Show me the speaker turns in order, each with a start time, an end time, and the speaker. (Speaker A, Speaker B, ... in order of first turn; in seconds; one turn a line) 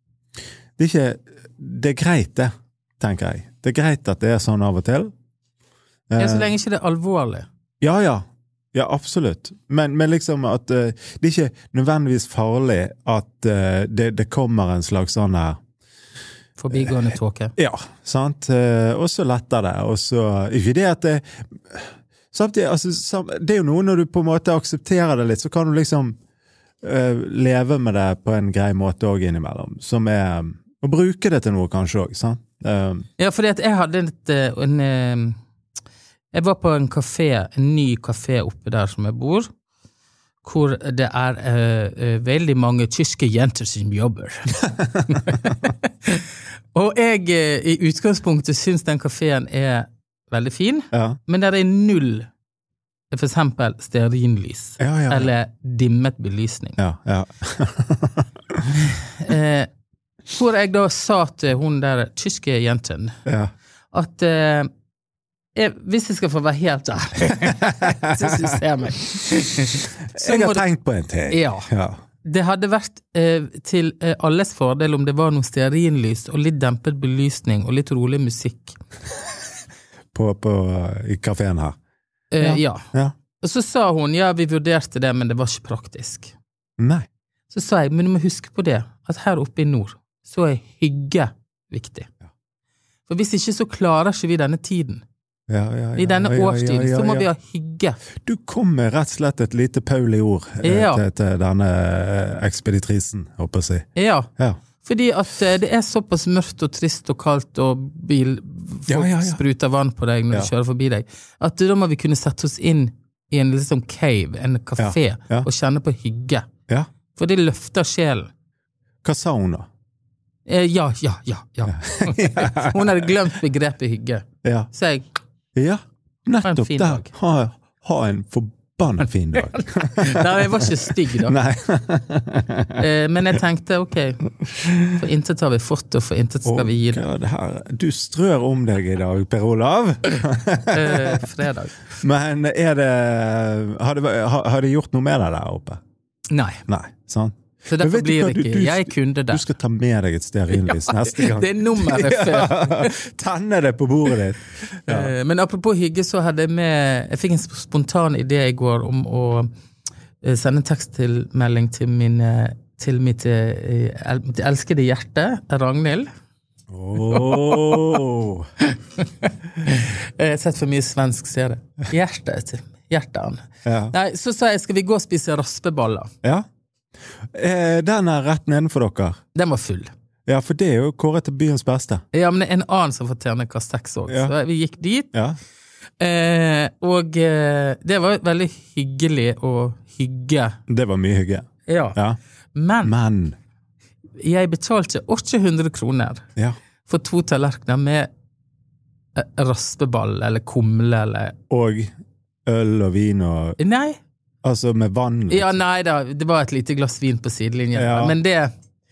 Speaker A: 0.8-5.1
Speaker A: 6.1-6.5
Speaker B: 6.2-7.5
Speaker A: 7.8-8.2
Speaker A: 8.7-15.6
Speaker B: 16.6-17.5
Speaker A: 16.7-17.0
Speaker A: 17.6-26.1
Speaker A: 26.8-33.0
Speaker B: 33.2-35.4
Speaker B: 36.3-39.5
Speaker B: 40.4-52.3
Speaker A: 50.9-51.2
Speaker B: 53.1-56.8
Speaker A: 54.8-55.3
Speaker A: 56.8-58.9
Speaker B: 58.9-59.7
Speaker B: 60.3-63.1
Speaker A: 63.2-63.5
Speaker B: 63.9-64.7
Speaker B: 65.5-70.6
Speaker A: 67.7-68.4
Speaker A: 70.1-72.0
Speaker B: 71.3-71.7
Speaker B: 72.2-78.8
Speaker A: 80.1-81.8
Speaker B: 82.3-82.8
Speaker A: 82.4-83.1
Speaker B: 83.4-86.3
Speaker A: 86.8-87.0
Speaker B: 87.5-92.1
Speaker B: 93.1-95.0
Speaker A: 95.5-97.3
Speaker B: 96.0-98.0
Speaker A: 98.2-103.9
Speaker B: 100.6-101.0
Speaker B: 103.9-104.3
Speaker B: 104.8-116.5
Speaker A: 108.9-109.4
Speaker A: 114.8-115.5
Speaker B: 117.2-118.3
Speaker A: 119.0-119.7
Speaker B: 120.5-125.0
Speaker A: 121.7-123.1
Speaker A: 124.4-124.7
Speaker A: 125.5-132.8
Speaker B: 126.4-127.1
Speaker B: 129.4-131.3
Speaker B: 132.8-134.3
Speaker A: 134.6-134.9
Speaker B: 134.9-137.0
Speaker A: 136.4-141.2
Speaker B: 140.7-141.8
Speaker A: 142.0-145.8
Speaker B: 146.3-146.6
Speaker A: 146.7-155.1
Speaker B: 147.7-149.4
Speaker B: 150.5-153.0
Speaker B: 154.9-159.5
Speaker B: 160.2-166.1
Speaker A: 166.7-168.5
Speaker B: 167.0-168.0
Speaker B: 168.6-176.1
Speaker A: 173.7-173.9
Speaker A: 177.3-179.2
Speaker B: 179.3-179.9
Speaker A: 180.3-182.0
Speaker B: 182.1-185.1
Speaker A: 184.1-184.3
Speaker B: 186.0-190.6
Speaker A: 190.7-192.2
Speaker B: 191.7-192.0
Speaker B: 192.5-192.9
Speaker A: 192.8-193.3
Speaker B: 194.2-196.2
Speaker B: 196.8-198.1
Speaker B: 199.2-201.3
Speaker A: 201.5-201.9
Speaker A: 202.4-203.6
Speaker B: 203.6-204.0
Speaker A: 204.4-205.6
Speaker B: 205.3-208.5
Speaker A: 207.7-208.2